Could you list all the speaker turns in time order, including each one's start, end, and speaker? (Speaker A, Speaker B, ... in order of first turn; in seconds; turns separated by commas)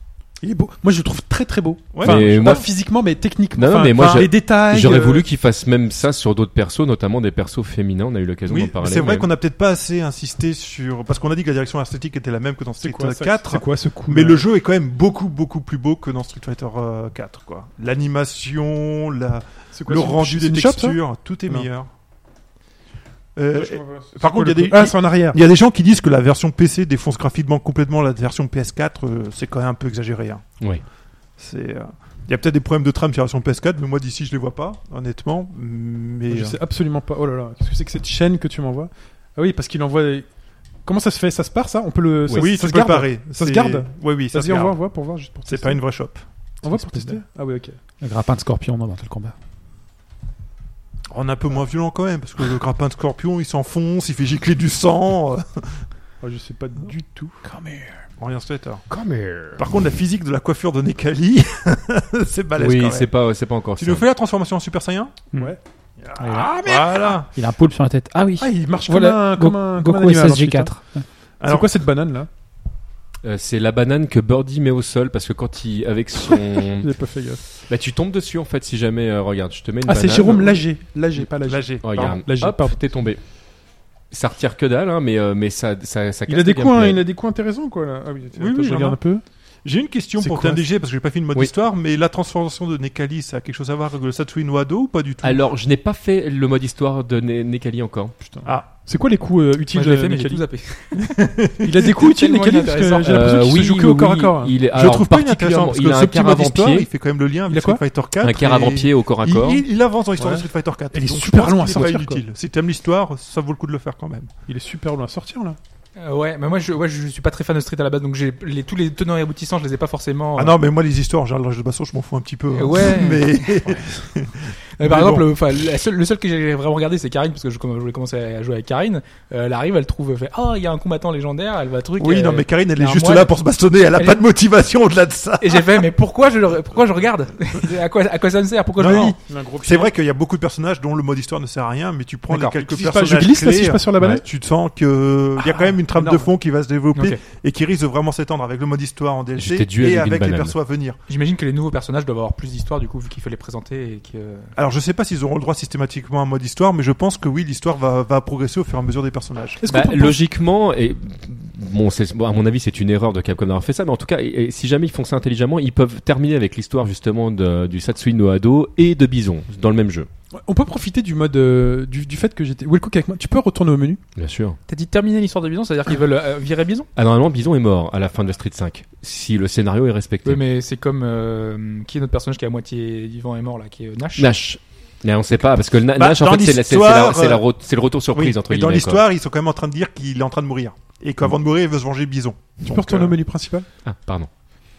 Speaker A: 0.4-5.2, Speaker B: 1.9-2.5, Speaker C: 2.0-2.6, Speaker C: 3.5-9.3, Speaker B: 8.5-21.9, Speaker A: 12.8-14.4, Speaker A: 19.7-21.7, Speaker B: 23.4-30.4, Speaker A: 23.5-25.4, Speaker B: 31.4-36.6, Speaker A: 36.3-40.3, Speaker A: 40.8-45.8, Speaker B: 42.3-44.8, Speaker B: 45.5-47.2, Speaker A: 46.6-47.8, Speaker D: 48.0-49.3, Speaker B: 51.1-55.8, Speaker A: 56.2-57.4, Speaker D: 57.4-58.0, Speaker B: 58.2-58.8, Speaker C: 58.9-59.6, Speaker B: 59.6-63.1, Speaker C: 62.6-64.0, Speaker B: 63.8-65.2, Speaker A: 65.3-65.6, Speaker B: 66.0-67.3, Speaker D: 66.2-71.0, Speaker A: 68.4-70.7, Speaker B: 71.4-71.7, Speaker A: 71.4-72.3, Speaker C: 73.2-76.9, Speaker A: 76.8-77.4, Speaker C: 77.5-80.6, Speaker A: 79.8-82.8, Speaker B: 81.5-82.2, Speaker C: 81.8-83.2, Speaker C: 84.1-87.0, Speaker A: 86.3-89.2, Speaker B: 88.3-89.0, Speaker B: 89.6-95.4, Speaker A: 90.2-90.6, Speaker C: 95.2-98.1, Speaker A: 98.2-100.5, Speaker E: 99.7-101.1, Speaker B: 101.1-101.8, Speaker A: 101.6-104.5, Speaker E: 101.9-103.4, Speaker C: 103.0-106.9, Speaker B: 104.7-114.3, Speaker A: 107.5-107.8, Speaker C: 108.2-109.6, Speaker A: 110.2-112.2, Speaker A: 114.5-115.6, Speaker E: 116.0-120.6, Speaker B: 120.3-125.3, Speaker E: 122.5-123.8, Speaker E: 124.8-133.4, Speaker B: 132.0-135.8, Speaker E: 133.9-134.2, Speaker E: 135.4-139.2, Speaker B: 138.8-151.0, Speaker A: 138.8-139.9, Speaker A: 142.3-144.2, Speaker A: 145.4-146.3, Speaker E: 146.9-147.2, Speaker C: 149.4-150.5, Speaker E: 151.1-154.5, Speaker B: 154.6-159.6, Speaker A: 159.6-160.2, Speaker C: 159.7-170.1, Speaker A: 170.3-174.0, Speaker C: 174.2-174.6, Speaker E: 174.7-176.9, Speaker C: 176.9-180.4, Speaker E: 180.2-184.4, Speaker C: 184.2-189.0, Speaker B: 185.9-187.4, Speaker B: 188.1-193.2, Speaker A: 192.6-193.7, Speaker C: 193.8-194.3